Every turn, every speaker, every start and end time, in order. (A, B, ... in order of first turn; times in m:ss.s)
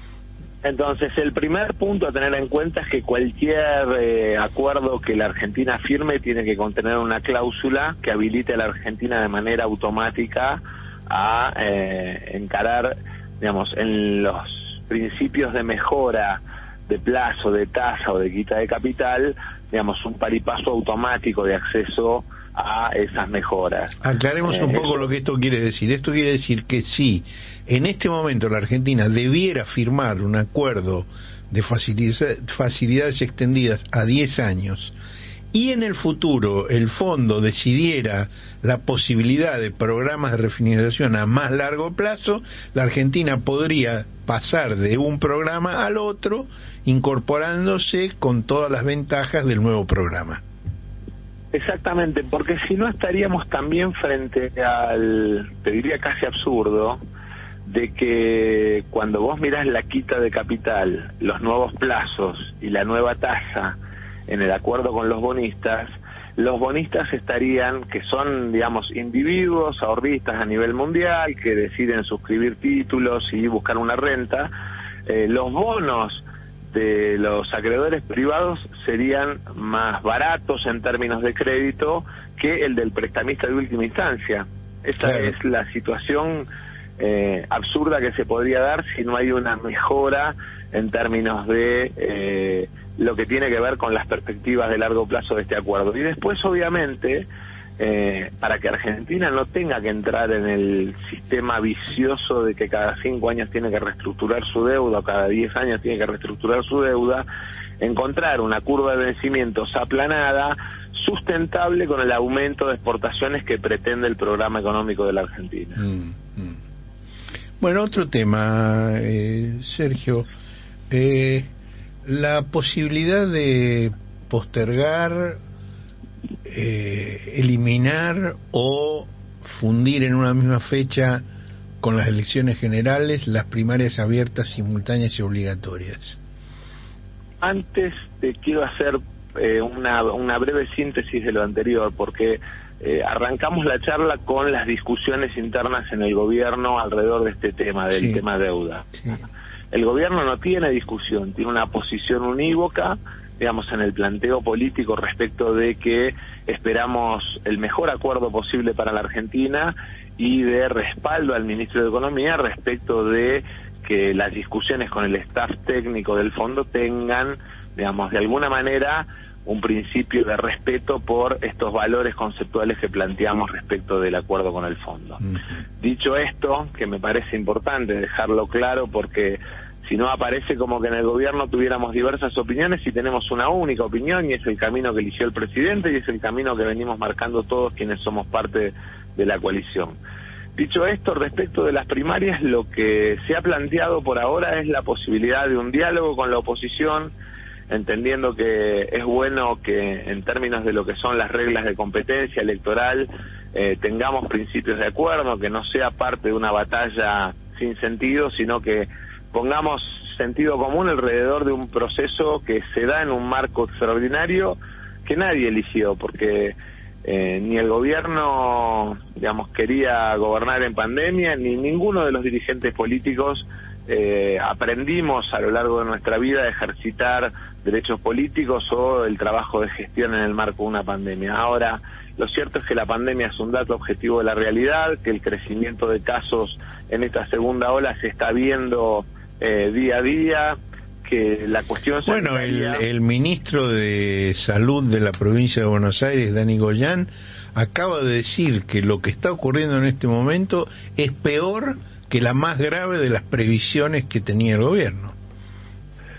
0:00.6-0:25.1 A
0:24.0-0:34.9 B
0:35.5-0:50.4 B
0:51.5-0:57.0 A
0:57.6-1:03.8 A
1:04.3-1:14.5 A
1:15.1-1:26.5 A
1:25.0-1:25.3 B
1:27.0-1:47.2 A
1:47.8-1:55.8 A
1:55.8-1:56.6 B
1:57.6-2:00.3 B
2:00.9-2:01.5 B
2:02.0-2:05.4 B
2:06.5-2:11.2 B
2:11.8-2:16.2 B
2:17.4-2:29.2 A
2:27.9-2:28.2 B
2:29.7-2:55.2 A
2:55.8-3:10.0 A
3:10.6-3:17.1 A
3:17.7-4:02.8 A
4:02.0-4:15.2 B